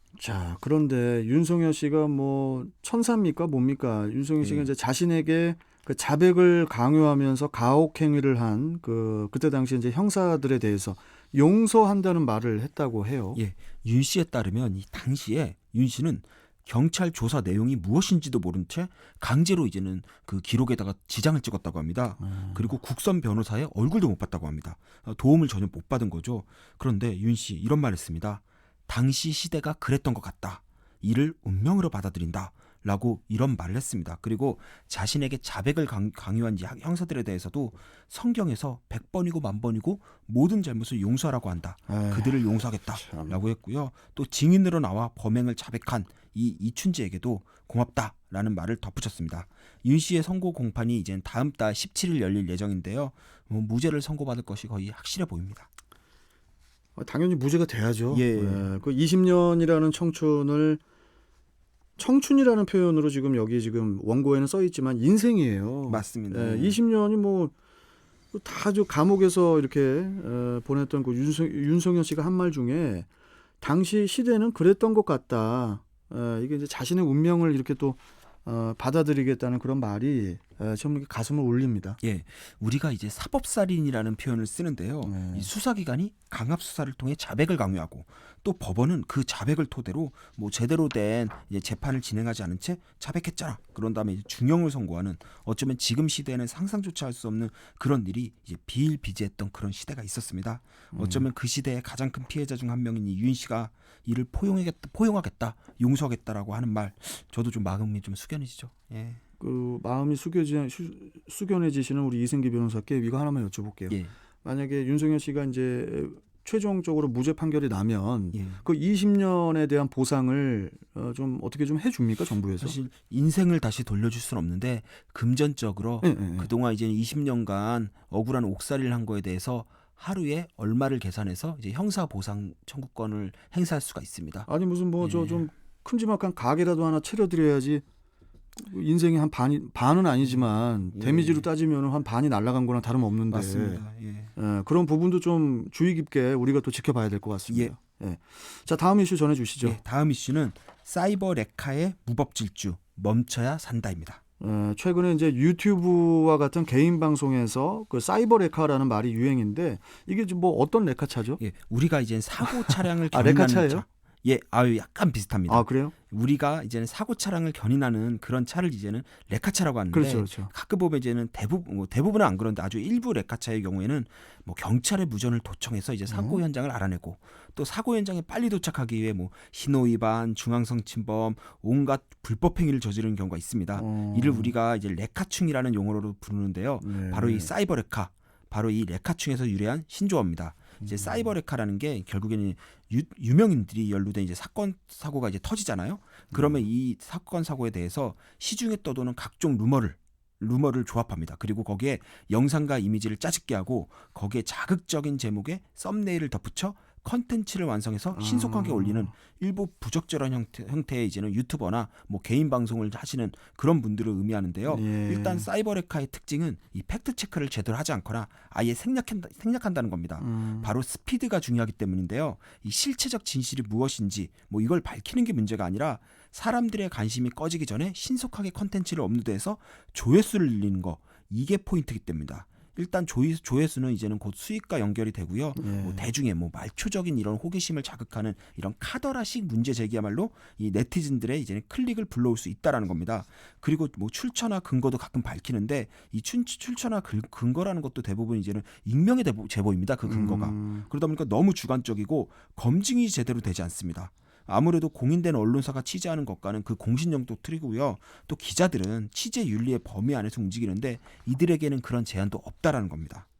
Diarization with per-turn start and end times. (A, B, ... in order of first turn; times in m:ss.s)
0:00.2-0:13.4 A
0:04.4-0:04.7 B
0:13.4-0:55.7 B
0:22.2-0:22.7 A
0:41.9-0:42.4 A
0:42.9-0:43.4 A
0:57.0-1:00.8 A
0:58.1-0:58.7 B
1:02.0-1:07.5 A
1:05.9-1:06.8 B
1:08.3-1:13.1 A
1:13.6-1:22.0 A
1:22.0-1:49.2 B
1:25.0-1:25.5 A
1:40.9-1:41.3 A
1:49.4-2:02.8 A
1:58.3-1:58.6 B
2:02.6-2:14.5 B
2:06.0-2:06.5 A
2:14.5-2:17.8 A
2:15.0-2:15.5 B
2:18.6-2:23.8 A
2:20.9-2:21.5 B
2:23.3-2:24.3 B
2:24.4-2:29.8 A
2:27.5-2:27.7 B
2:29.6-2:34.2 B
2:34.4-2:41.4 A
2:41.4-4:23.2 B
2:42.7-2:43.8 A
2:45.5-2:45.9 A
2:49.9-2:50.5 A
2:56.1-2:56.4 A
3:03.8-3:04.5 A
3:06.8-3:07.5 A
3:10.8-3:11.3 A
3:16.3-3:16.6 A
3:28.1-3:29.1 A
3:34.7-3:35.5 A
3:40.2-3:40.7 A
3:55.6-3:56.1 A
4:10.1-4:10.9 A